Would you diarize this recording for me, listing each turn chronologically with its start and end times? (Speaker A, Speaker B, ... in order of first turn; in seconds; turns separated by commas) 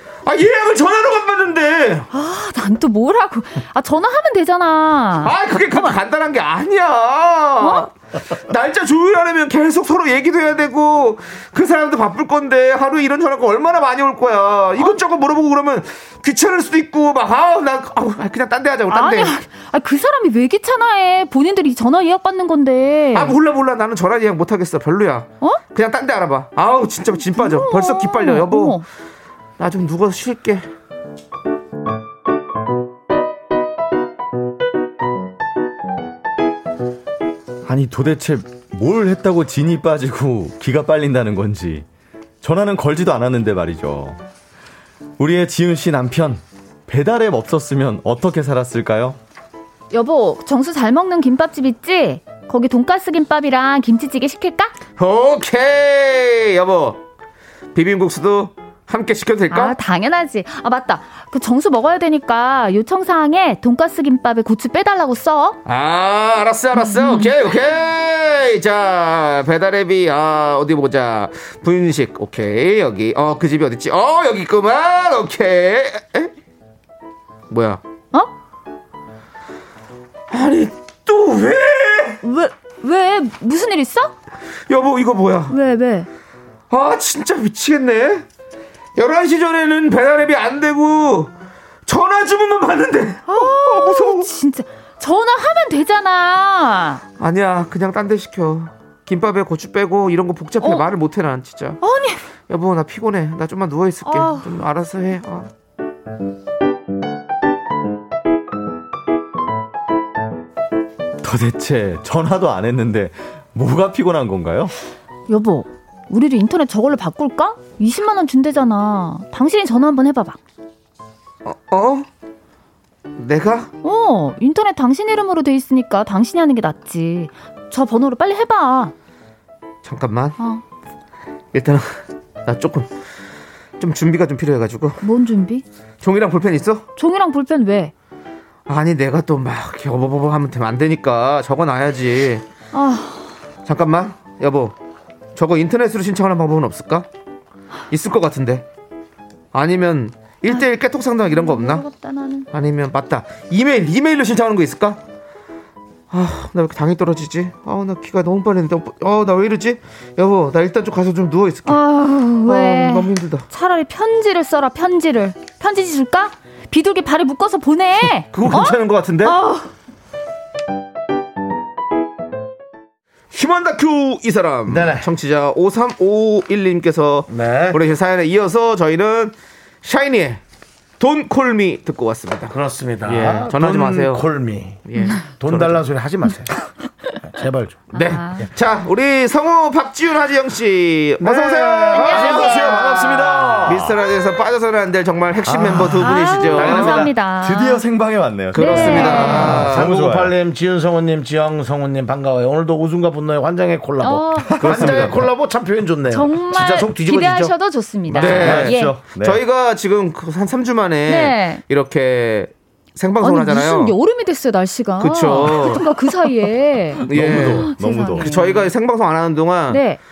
Speaker A: 0.2-2.1, Speaker B: 2.1-6.0, Speaker A: 5.2-19.3, Speaker B: 7.6-7.9, Speaker B: 18.9-23.4, Speaker A: 23.1-28.8, Speaker B: 27.2-28.8, Speaker A: 29.6-30.7, Speaker C: 37.6-41.9, Speaker C: 42.4-44.2, Speaker C: 45.2-49.2, Speaker B: 49.9-54.7, Speaker A: 55.0-57.0, Speaker A: 57.7-59.8, Speaker B: 59.5-65.6, Speaker A: 65.7-76.3, Speaker B: 66.7-67.3, Speaker A: 77.5-77.8, Speaker A: 80.3-82.2, Speaker B: 82.2-84.1, Speaker A: 84.7-85.6, Speaker B: 85.5-86.1, Speaker A: 86.7-88.2, Speaker A: 89.0-91.3, Speaker A: 91.8-94.3, Speaker B: 93.3-97.0, Speaker A: 97.2-101.8, Speaker B: 101.8-102.2, Speaker A: 102.5-105.5, Speaker B: 104.0-104.5, Speaker C: 111.2-114.7, Speaker B: 115.3-120.4, Speaker A: 121.4-122.1, Speaker A: 123.2-123.7, Speaker B: 123.8-128.9, Speaker A: 129.8-130.4, Speaker A: 131.5-132.9, Speaker A: 133.8-135.0, Speaker B: 135.0-135.6, Speaker A: 136.0-136.8, Speaker B: 137.0-137.9, Speaker A: 138.7-142.4, Speaker B: 142.7-143.3, Speaker A: 143.7-144.7, Speaker A: 145.3-147.1, Speaker A: 147.9-148.6, Speaker A: 149.5-151.8, Speaker B: 151.3-152.5, Speaker A: 152.5-155.0, Speaker A: 156.1-161.8, Speaker B: 161.7-169.7, Speaker A: 162.4-163.4, Speaker A: 168.3-169.4, Speaker A: 173.3-180.4, Speaker D: 174.7-175.1, Speaker D: 177.3-177.8, Speaker A: 181.0-184.2, Speaker D: 182.5-184.8, Speaker A: 184.8-185.8, Speaker D: 185.4-186.5, Speaker D: 187.3-187.8, Speaker A: 187.9-192.6, Speaker B: 187.9-188.5, Speaker D: 191.2-193.8, Speaker B: 191.9-192.8, Speaker C: 192.0-193.9, Speaker A: 193.6-197.1, Speaker D: 195.5-195.9, Speaker B: 196.0-197.8, Speaker D: 196.5-197.1, Speaker C: 196.6-200.3, Speaker A: 198.5-199.9, Speaker B: 198.5-199.7, Speaker D: 199.3-207.5, Speaker B: 204.0-205.1, Speaker C: 204.4-205.3, Speaker A: 204.6-205.2, Speaker B: 206.1-209.0, Speaker D: 208.1-208.7, Speaker C: 208.1-209.4, Speaker A: 208.1-213.9, Speaker B: 211.1-211.6, Speaker B: 213.2-218.7, Speaker A: 215.0-215.9, Speaker C: 217.0-218.3, Speaker A: 217.1-219.8, Speaker B: 219.7-220.0